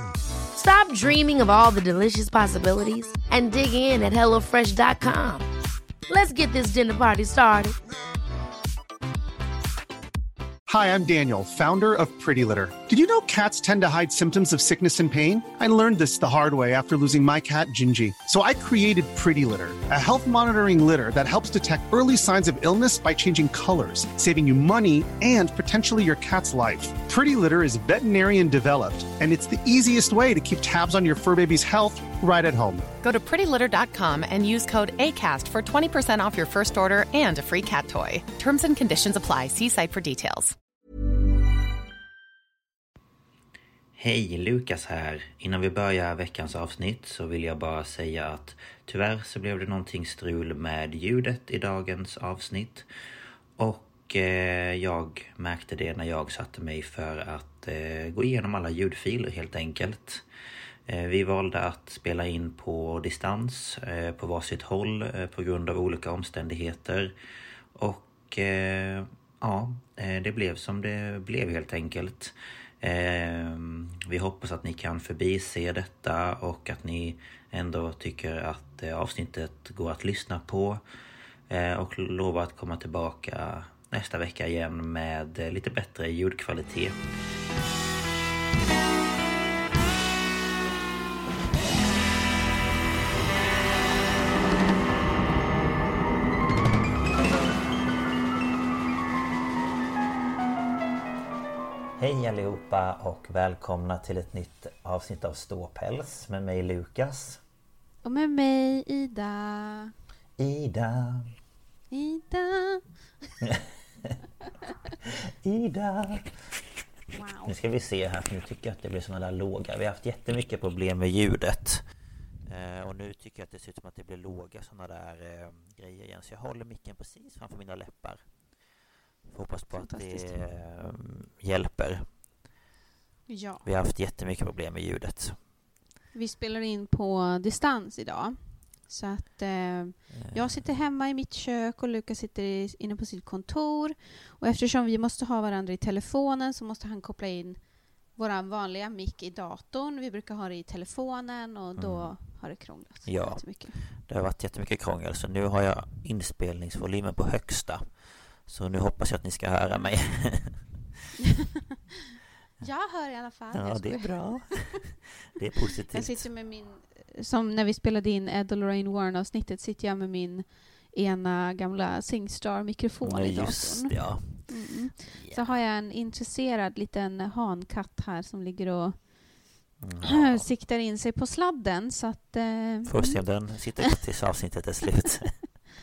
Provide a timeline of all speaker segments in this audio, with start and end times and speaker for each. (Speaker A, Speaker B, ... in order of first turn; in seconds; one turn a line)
Speaker A: 0.5-5.5
Speaker A: 6.1-7.8
Speaker B: 10.7-32.9
Speaker C: 33.0-40.5
Speaker D: 44.0-52.9
Speaker D: 53.6-60.3
Speaker D: 60.9-67.2
Speaker D: 67.8-80.8
Speaker D: 81.5-87.0
Speaker D: 102.0-107.4
Speaker E: 108.0-109.9
Speaker D: 110.4-111.3
Speaker E: 111.9-112.8
Speaker D: 113.4-114.2
Speaker D: 115.0-116.6
Speaker E: 117.1-117.5
Speaker D: 117.4-121.8
Speaker D: 122.4-128.2
Speaker D: 129.3-132.1
Speaker E: 129.7-130.4
Speaker E: 133.3-133.6
Speaker D: 133.6-135.4
Speaker E: 136.1-153.8
Speaker D: 140.1-140.6
Speaker D: 151.8-152.1
Speaker D: 153.1-157.9
Speaker D: 158.4-160.7
Speaker E: 162.6-164.5
Speaker D: 163.5-166.3
Speaker E: 165.9-179.3
Speaker D: 173.0-175.6
Speaker D: 179.8-180.4
Speaker E: 180.0-183.2
Speaker D: 182.9-185.5